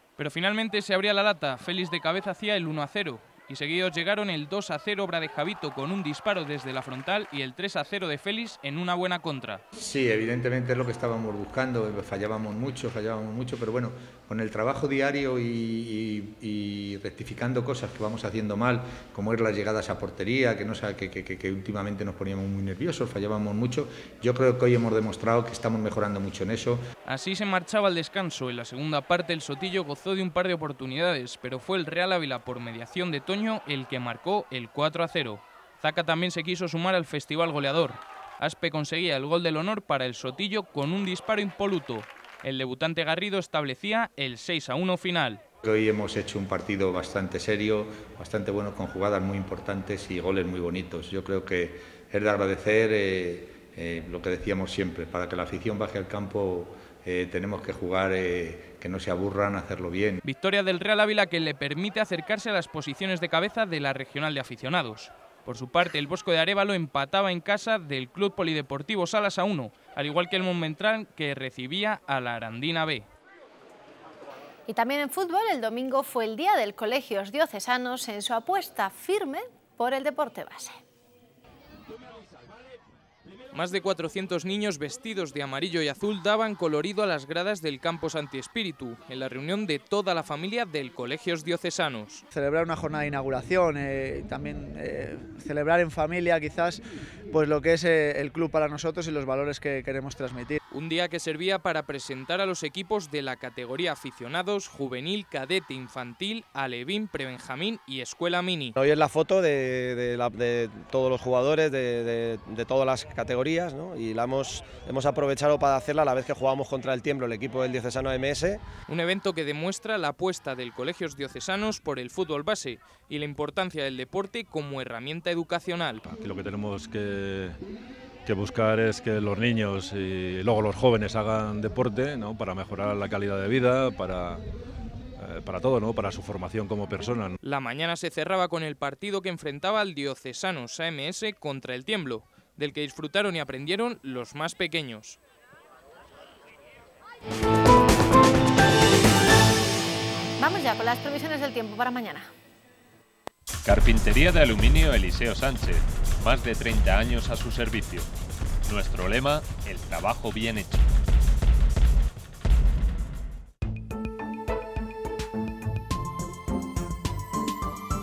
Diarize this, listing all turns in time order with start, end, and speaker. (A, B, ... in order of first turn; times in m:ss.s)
0:00.2-0:09.6 A
0:09.8-0:26.8 B
0:27.0-0:45.4 A
0:45.6-1:00.2 B
1:00.2-1:13.0 A
1:14.7-1:20.8 C
1:23.5-1:32.2 A
1:32.3-1:40.6 D
1:40.7-1:48.8 A
1:48.8-1:58.6 E
1:58.9-2:06.0 A
2:06.0-2:07.6 F
2:08.2-2:14.4 F
2:15.2-2:17.4 F
2:17.4-2:25.2 A
2:30.4-2:32.3 C
2:33.6-2:38.1 G
2:38.6-2:40.9 G